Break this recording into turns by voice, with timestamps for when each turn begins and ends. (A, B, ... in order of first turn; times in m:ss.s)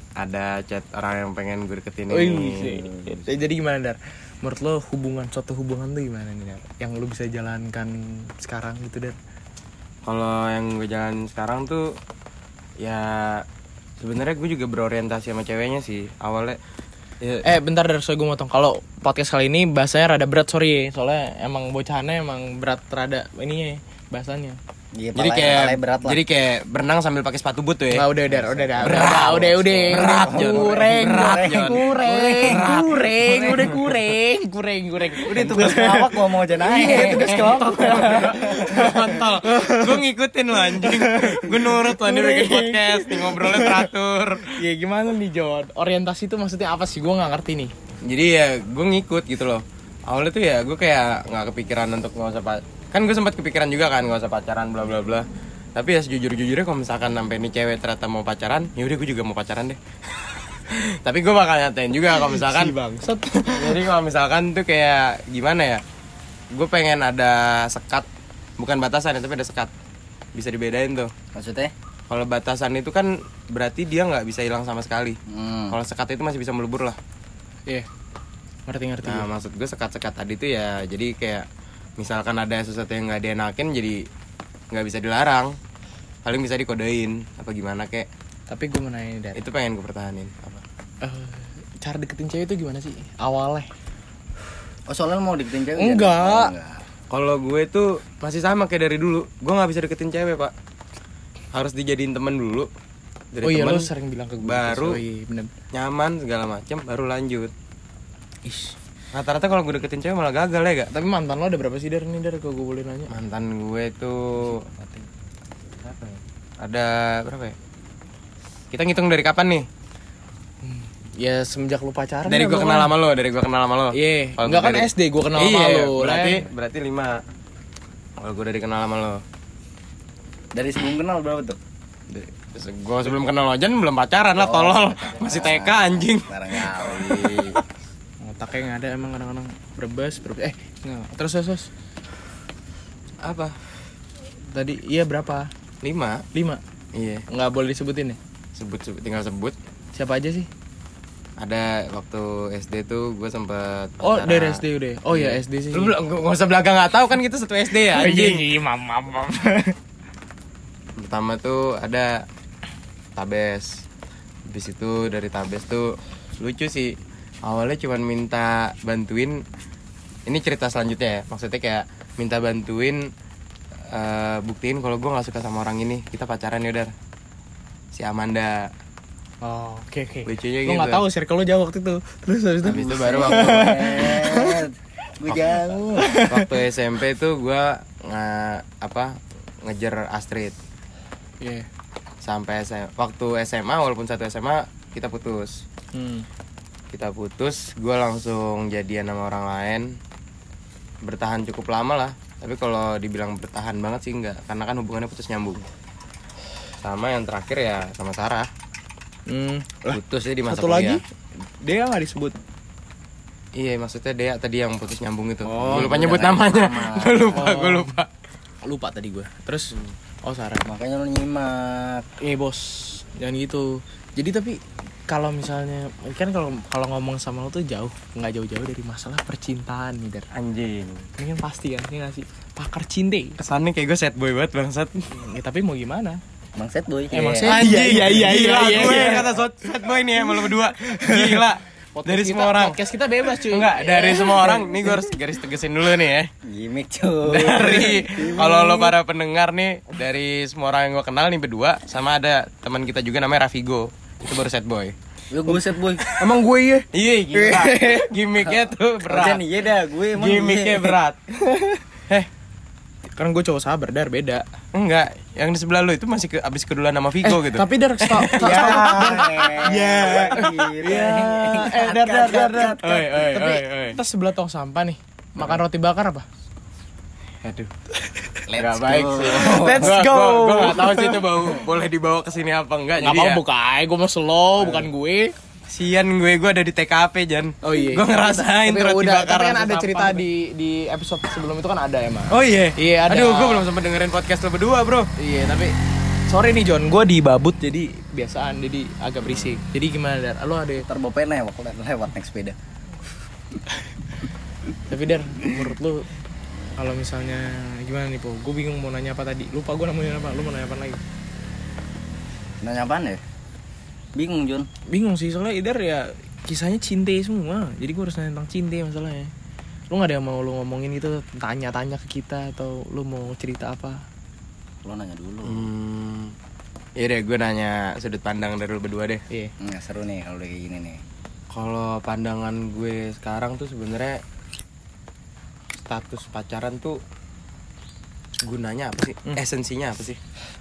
0:00.2-0:02.7 A
0:02.1-0:09.2 B
0:02.9-0:03.2 C
0:10.0-0:11.9 A
0:12.8-0:13.4 A
0:14.0-0:16.6 A
0:17.2-0:17.5 A
0:17.4-0:24.6 B
0:25.0-0:26.2 C
0:25.2-0:28.1 A
0:27.9-0:40.0 B
0:28.3-0:32.7 C
0:28.8-0:33.8 A
0:33.2-0:33.6 C
0:35.3-0:38.9 C
0:36.8-0:44.5 A
0:40.5-0:43.9 B
0:44.4-0:47.7 B
0:48.0-1:02.8 A
1:02.1-1:03.8 B
1:03.3-1:05.8 A
1:06.5-1:08.1 A
1:08.6-1:09.7 A
1:10.4-1:11.1 A
1:11.3-1:11.7 C
1:12.1-1:15.2 A
1:15.3-1:15.8 C
1:15.7-1:17.0 A
1:18.7-1:19.3 B
1:19.0-1:21.4 A
1:22.0-1:24.0 A
1:24.7-1:25.6 A
1:26.2-1:28.1 A
1:28.5-1:29.4 B
1:29.4-1:30.6 A
1:31.0-1:33.7 B
1:34.9-1:36.8 C
1:35.8-1:36.5 B
1:37.1-1:40.5 A
1:41.5-1:42.7 A
1:43.3-1:43.9 A
1:43.4-1:45.5 B
1:44.4-1:45.0 A
1:45.7-1:47.5 A
1:48.4-1:48.8 B
1:49.1-1:50.9 A
1:50.9-1:53.1 B
1:53.1-1:54.6 A
1:54.5-1:55.1 C
1:55.8-1:56.2 C
1:56.6-1:57.6 A
1:58.7-1:59.7 A
2:00.6-2:02.9 B
2:02.3-2:07.2 A
2:04.0-2:06.4 B
2:08.2-2:09.2 A
2:10.5-2:11.6 C
2:12.5-2:17.6 A
2:14.4-2:17.6 C
2:18.2-2:21.7 B
2:23.2-2:23.6 A
2:24.4-2:25.5 B
2:25.8-2:26.2 A
2:26.3-2:26.6 B
2:26.9-2:27.2 A
2:27.3-2:28.2 B
2:28.6-2:29.6 A
2:30.0-2:30.5 B
2:31.4-2:38.5 A
2:34.0-2:35.9 B
2:37.9-2:39.7 B
2:41.0-2:42.2 A
2:43.2-2:43.8 A
2:44.5-2:49.4 A
2:50.3-2:53.0 A
2:53.9-2:56.9 A
2:57.9-2:58.7 A
2:59.4-3:04.6 B
3:00.3-3:01.0 A
3:02.6-3:04.0 A
3:02.9-3:06.2 C
3:05.3-3:05.6 A
3:06.0-3:06.5 B
3:06.2-3:10.6 A
3:11.4-3:11.7 B
3:12.2-3:15.6 A
3:15.9-3:16.3 B
3:16.9-3:19.9 A
3:21.0-3:25.7 A
3:26.8-3:28.5 A
3:29.3-3:32.4 B
3:29.9-3:31.0 A
3:33.6-3:38.1 A
3:35.4-3:36.0 B
3:35.6-3:37.5 C
3:37.4-3:37.9 B
3:38.6-3:39.7 B
3:40.2-3:40.7 B
3:40.6-3:42.1 C
3:42.2-3:50.3 B
3:50.3-3:51.1 A
3:51.2-3:53.4 B
3:53.4-3:55.1 A
3:55.1-3:56.2 B
3:56.6-3:57.8 C
3:57.1-3:59.3 B
3:57.4-4:06.3 A
4:00.7-4:04.7 B
4:06.4-4:09.0 C
4:07.3-4:15.0 A
4:15.3-4:16.1 C
4:16.0-4:19.4 A
4:19.1-4:20.9 C
4:20.1-4:21.2 A
4:21.4-4:21.8 B
4:23.2-4:24.4 B
4:24.7-4:30.4 A
4:27.2-4:36.3 B
4:28.4-4:33.4 C
4:33.0-4:34.0 A
4:37.4-4:37.7 A
4:38.5-4:43.4 A
4:38.5-4:40.0 C
4:39.3-4:41.3 B
4:43.0-4:45.3 B
4:44.6-4:44.9 A
4:45.7-4:50.2 A
4:47.6-4:53.7 B
4:52.3-4:55.1 A
4:55.2-4:55.8 B
4:56.3-5:00.9 B
5:00.8-5:02.6 C
5:04.9-5:06.1 B
5:06.8-5:11.0 B
5:12.6-5:13.2 C
5:14.2-5:14.7 C
5:14.9-5:19.3 B
5:19.9-5:24.0 B
5:24.8-5:25.7 C
5:25.5-5:26.3 A
5:27.0-5:29.2 A
5:29.6-5:31.0 C
5:31.5-5:34.2 A
5:35.8-5:37.0 A
5:38.4-5:40.2 A